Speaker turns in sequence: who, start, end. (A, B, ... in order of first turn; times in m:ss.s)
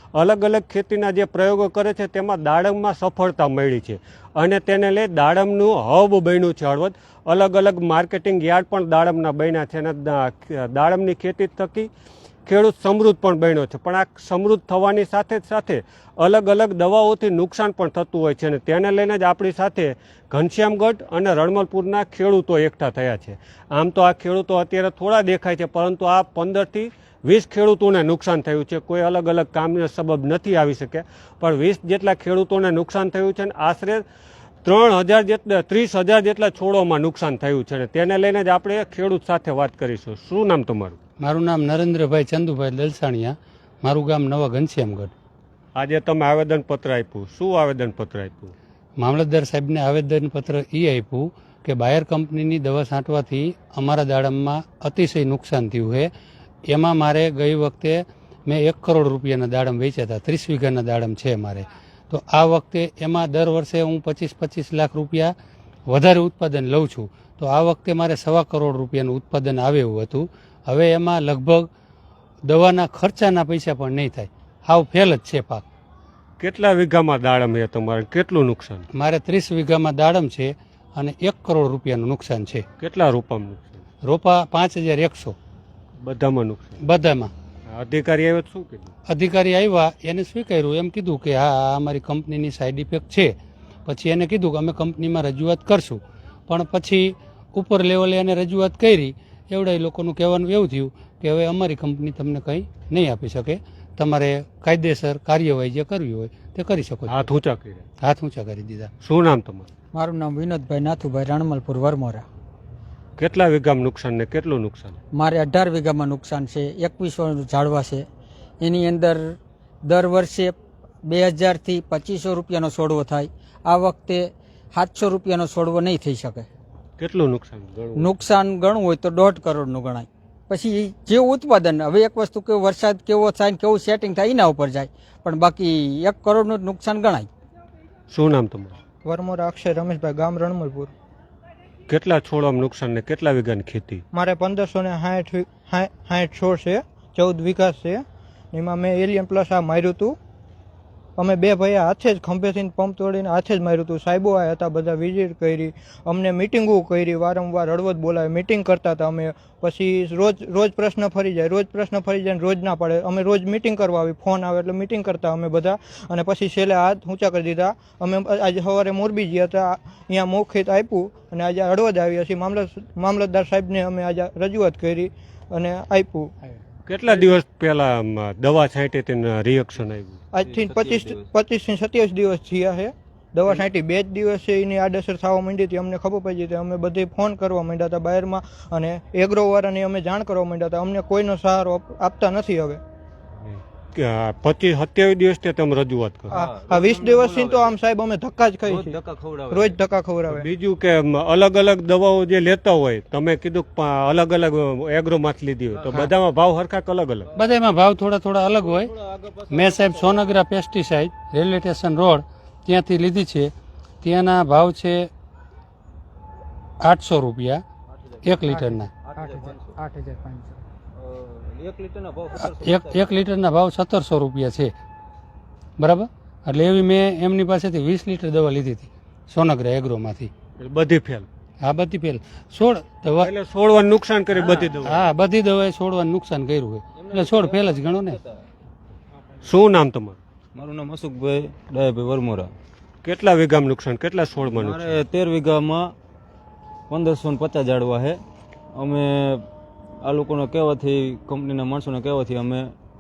0:00.2-0:11.9 A
0:12.5-0:34.0 A
0:34.6-0:41.0 A
0:41.2-0:45.1 B
0:45.8-0:48.5 A
0:49.0-0:56.1 B
0:56.7-1:05.3 B
1:05.9-1:11.7 B
1:12.5-1:15.6 B
1:16.4-1:18.9 A
1:18.9-1:22.7 B
1:22.8-1:23.8 A
1:24.0-1:25.4 B
1:26.0-1:26.8 A
1:26.8-1:27.3 B
1:27.7-1:28.9 A
1:29.1-1:33.4 B
1:33.9-1:47.3 B
1:47.1-1:47.8 A
1:48.0-1:48.9 B
1:49.0-1:49.7 A
1:49.9-1:52.2 C
1:53.2-1:55.0 A
1:55.1-1:58.1 C
1:58.6-2:06.5 C
2:07.0-2:08.2 A
2:08.0-2:17.3 C
2:18.1-2:18.8 A
2:19.0-2:20.9 D
2:21.9-2:24.0 A
2:24.1-2:30.2 D
2:31.2-2:56.3 D
2:56.9-3:00.2 A
3:00.3-3:12.8 D
3:00.4-3:01.3 E
3:13.4-3:16.4 A
3:16.3-3:17.8 E
3:16.3-3:19.0 D
3:18.7-3:19.8 E
3:19.5-3:20.5 D
3:20.3-3:27.3 A
3:25.7-3:26.1 E
3:27.4-3:28.9 B
3:28.6-3:30.4 E
3:29.5-3:35.1 B
3:36.8-3:37.6 B
3:37.9-3:38.4 E
3:38.2-3:38.9 B
3:38.5-3:40.6 C
3:39.0-3:39.8 E
3:41.0-3:43.2 E
3:42.4-3:44.7 B
3:45.8-3:50.3 B
3:50.6-3:51.3 A
3:51.6-3:53.3 B
3:53.2-3:55.1 A
3:54.4-3:54.8 E
3:54.8-3:58.2 B
3:57.0-3:58.4 E
3:59.4-4:00.2 A
4:00.6-4:02.5 E
4:03.0-4:05.0 A
4:04.4-4:05.9 E
4:06.9-4:08.2 E
4:08.8-4:09.5 E
4:10.0-4:12.7 E